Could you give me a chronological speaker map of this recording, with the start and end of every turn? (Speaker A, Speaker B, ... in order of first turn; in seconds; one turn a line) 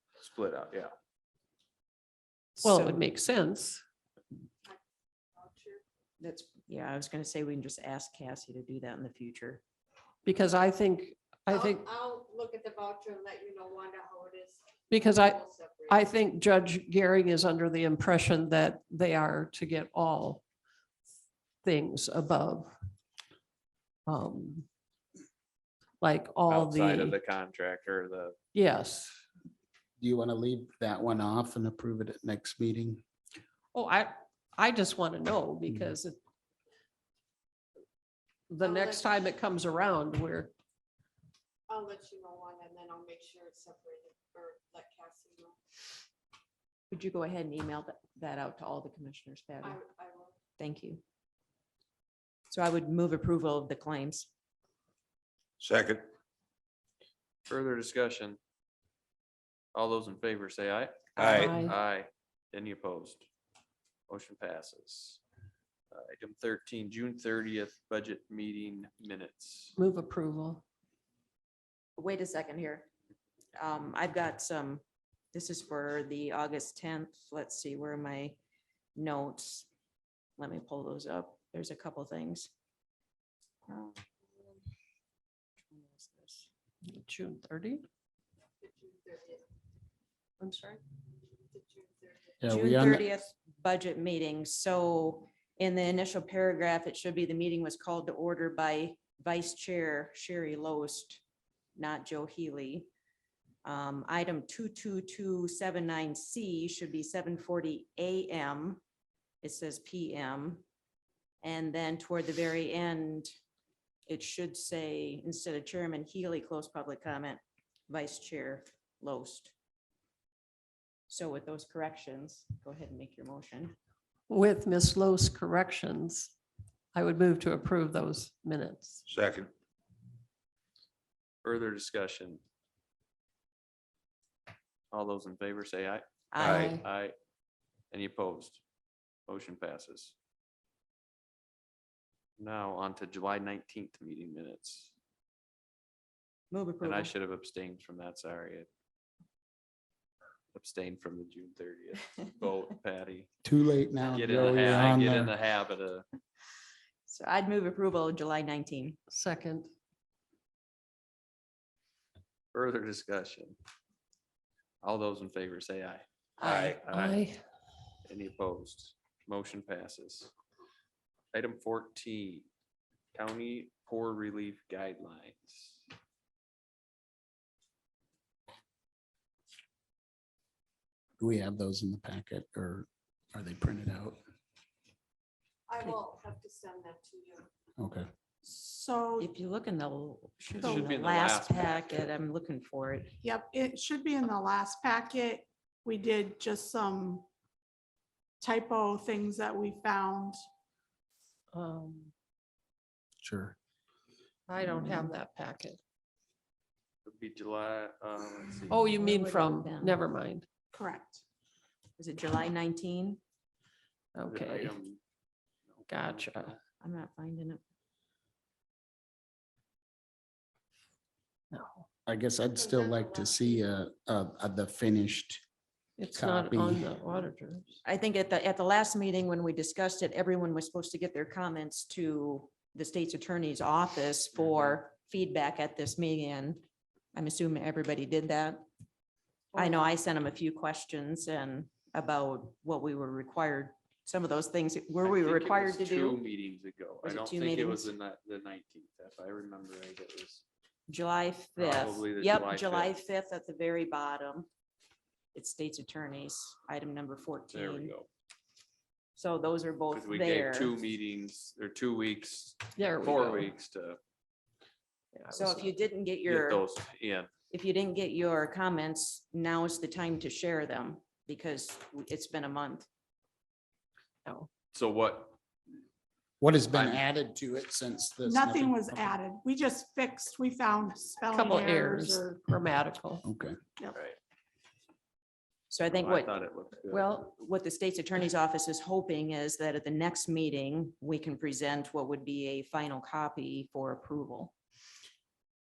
Speaker A: 0.2-0.9
Speaker B: 2.6-3.0
Speaker C: 2.6-3.8
Speaker D: 5.3-5.8
Speaker B: 6.2-9.6
Speaker C: 10.2-11.8
Speaker D: 11.5-16.1
Speaker C: 14.9-20.4
Speaker C: 21.6-22.7
Speaker C: 24.1-24.7
Speaker C: 26.0-27.2
Speaker A: 26.5-28.4
Speaker C: 28.5-29.2
Speaker E: 30.0-33.0
Speaker C: 33.7-36.2
Speaker E: 35.7-35.9
Speaker C: 38.5-40.5
Speaker D: 38.6-39.2
Speaker D: 41.7-45.6
Speaker B: 46.9-49.8
Speaker D: 49.6-50.4
Speaker B: 50.6-51.0
Speaker B: 52.5-54.3
Speaker F: 55.6-56.1
Speaker A: 57.5-58.4
Speaker A: 59.7-63.2
Speaker F: 61.1-61.7
Speaker C: 61.2-61.7
Speaker A: 64.1-65.2
Speaker A: 65.9-69.8
Speaker C: 69.8-70.6
Speaker B: 72.0-72.9
Speaker B: 73.5-74.8
Speaker B: 75.3-78.4
Speaker B: 79.0-79.7
Speaker B: 80.4-82.5
Speaker B: 86.0-86.4
Speaker C: 86.8-87.8
Speaker D: 88.6-89.5
Speaker C: 90.4-90.8
Speaker D: 91.3-92.4
Speaker E: 92.4-93.1
Speaker B: 92.5-101.2
Speaker B: 101.8-102.9
Speaker B: 103.6-108.8
Speaker B: 109.4-110.6
Speaker B: 111.4-113.3
Speaker B: 114.1-119.5
Speaker B: 121.1-123.7
Speaker C: 124.3-126.3
Speaker C: 126.9-129.0
Speaker F: 129.1-129.5
Speaker A: 131.4-132.4
Speaker A: 134.9-136.0
Speaker B: 136.3-136.8
Speaker F: 136.4-136.8
Speaker A: 136.6-137.1
Speaker A: 137.9-138.6
Speaker A: 139.3-140.1
Speaker A: 142.4-144.9
Speaker B: 146.5-147.1
Speaker A: 146.8-148.7
Speaker A: 150.5-153.3
Speaker E: 153.4-155.3
Speaker A: 154.1-156.1
Speaker B: 157.1-159.0
Speaker C: 159.1-159.7
Speaker A: 162.5-163.6
Speaker A: 164.8-166.0
Speaker F: 166.4-166.8
Speaker B: 166.4-166.7
Speaker A: 166.6-167.2
Speaker C: 166.9-167.4
Speaker A: 168.0-170.3
Speaker A: 171.3-172.5
Speaker A: 173.1-175.8
Speaker E: 181.2-184.2
Speaker D: 185.7-187.5
Speaker E: 187.8-188.1
Speaker G: 188.4-189.3
Speaker B: 189.2-193.1
Speaker G: 190.6-190.9
Speaker A: 190.6-192.1
Speaker G: 193.2-197.2
Speaker G: 198.4-200.4
Speaker C: 201.5-202.1
Speaker E: 203.2-203.6
Speaker C: 204.5-205.8
Speaker E: 204.6-205.1
Speaker A: 207.0-208.9
Speaker C: 208.7-210.4
Speaker B: 208.9-210.0
Speaker G: 210.7-211.2
Speaker B: 212.0-213.2
Speaker C: 214.1-214.7
Speaker A: 214.2-215.0
Speaker A: 215.7-216.6
Speaker C: 215.9-216.6
Speaker B: 216.8-217.6
Speaker C: 221.5-221.8
Speaker E: 222.1-225.4
Speaker D: 222.6-223.6
Speaker C: 226.0-227.8
Speaker E: 226.2-227.0
Speaker B: 227.8-236.6
Speaker A: 234.4-234.7
Speaker B: 237.1-238.6
Speaker B: 239.5-246.2
Speaker A: 245.0-250.4
Speaker B: 247.0-247.9
Speaker B: 250.9-254.5
Speaker A: 251.6-253.0
Speaker B: 255.3-257.9
Speaker A: 257.5-258.1
Speaker B: 259.1-260.7
Speaker A: 259.9-264.0
Speaker C: 262.8-263.5
Speaker C: 265.1-265.7
Speaker B: 265.3-266.6
Speaker A: 266.2-267.3
Speaker B: 267.5-272.9
Speaker A: 274.7-275.4
Speaker E: 276.4-279.1
Speaker A: 276.7-277.1
Speaker G: 278.2-282.3
Speaker C: 281.3-283.2
Speaker E: 283.2-283.6
Speaker A: 283.9-284.2
Speaker B: 285.7-286.4
Speaker A: 285.9-287.2
Speaker B: 286.9-294.5